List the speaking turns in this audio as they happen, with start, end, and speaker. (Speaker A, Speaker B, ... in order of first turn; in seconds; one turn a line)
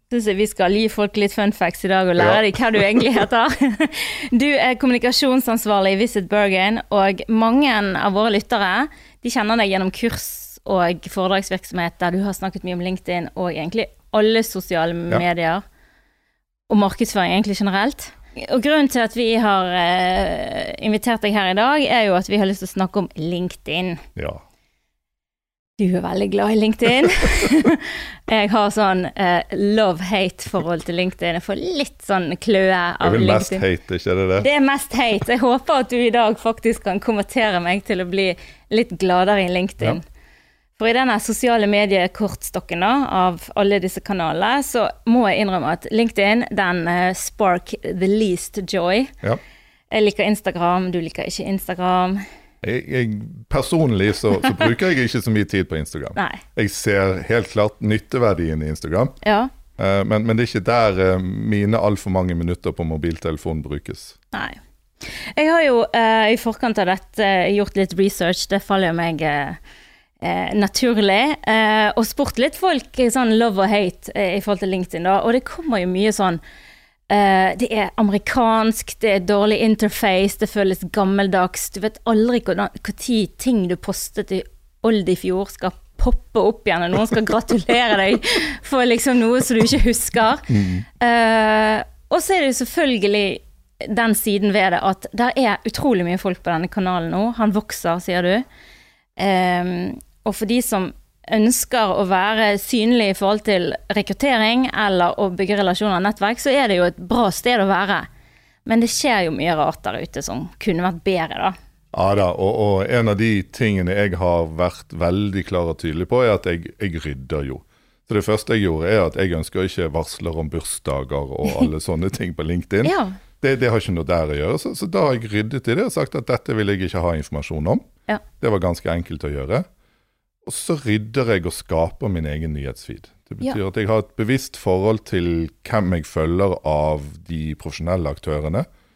Speaker A: 0.1-15.6
Speaker B: 2.2-3.2
Speaker A: 16.7-24.0
Speaker B: 24.1-24.4
Speaker A: 25.8-33.6
Speaker B: 33.0-34.5
Speaker A: 34.4-40.0
Speaker A: 40.8-49.1
Speaker A: 49.9-52.2
Speaker B: 52.6-59.2
Speaker A: 56.1-56.4
Speaker A: 59.2-59.5
Speaker B: 59.8-64.2
Speaker A: 64.3-69.6
Speaker A: 70.2-76.4
Speaker A: 77.1-98.4
Speaker B: 90.5-90.8
Speaker A: 99.2-108.1
Speaker A: 108.6-111.5
Speaker B: 111.9-127.9
Speaker A: 122.8-123.2
Speaker B: 128.4-129.7
Speaker B: 130.4-138.7